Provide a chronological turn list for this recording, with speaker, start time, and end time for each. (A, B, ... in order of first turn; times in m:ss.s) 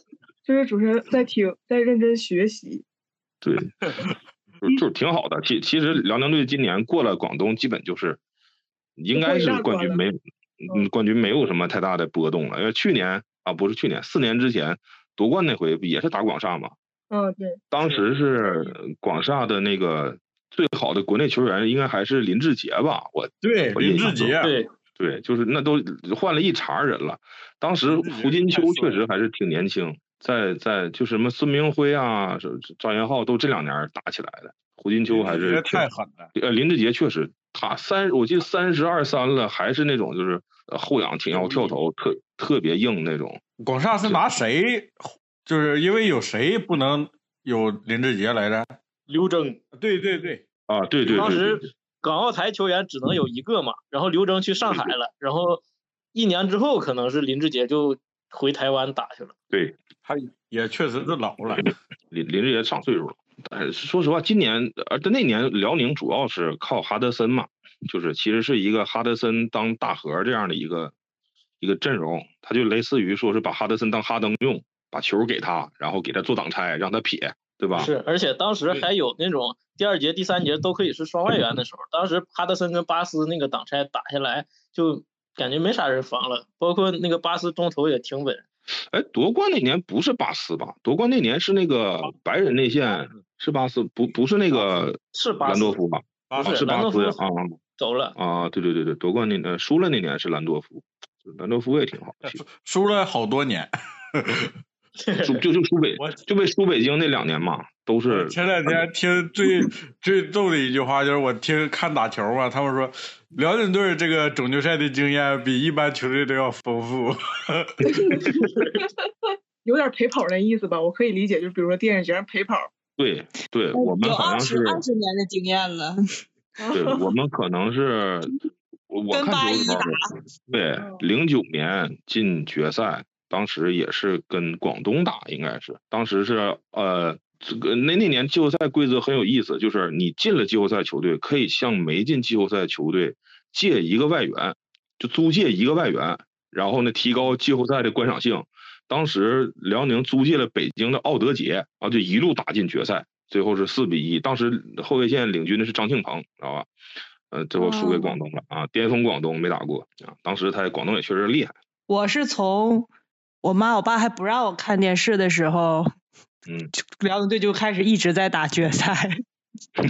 0:00.4-0:02.8 A
0:03.4-0:03.7 B
0:03.8-0:04.1 C
0:04.6-0:08.2 B
0:09.0-0:16.7 B
0:09.1-0:10.0 A
0:17.1-0:17.6 A
0:17.7-0:24.3 B
0:23.4-0:24.6 C
0:24.4-0:24.7 D
0:25.0-0:43.4 B
0:27.9-0:29.0 C
0:35.1-0:36.3 C
0:41.3-0:41.7 C
0:43.6-0:48.8 C
0:49.1-0:49.6 D
0:49.7-0:50.4 C
0:50.7-0:51.7 B
0:51.1-0:55.6 D
0:54.6-0:54.9 B
0:56.1-0:59.3 D
1:00.0-1:01.7 C
1:02.1-1:10.9 B
1:11.6-1:17.9 B
1:17.7-1:28.4 D
1:28.9-1:37.6 B
1:35.1-1:35.8 D
1:36.3-1:36.9 C
1:36.4-1:37.2 D
1:37.8-1:38.2 D
1:38.2-1:42.4 B
1:42.2-1:44.5 C
1:45.0-1:45.4 D
1:45.2-1:48.8 B
1:46.0-1:46.2 C
1:48.1-1:58.4 C
1:57.9-1:58.4 A
1:59.6-2:02.7 A
2:03.0-2:04.8 B
2:03.7-2:06.0 E
2:06.6-2:07.1 A
2:06.7-2:08.4 B
2:08.9-2:36.7 B
2:09.1-2:10.0 E
2:37.3-2:41.5 B
2:37.6-2:38.2 E
2:41.9-2:42.9 E
2:43.4-2:45.9 E
2:46.5-2:46.7 B
2:46.7-2:49.2 E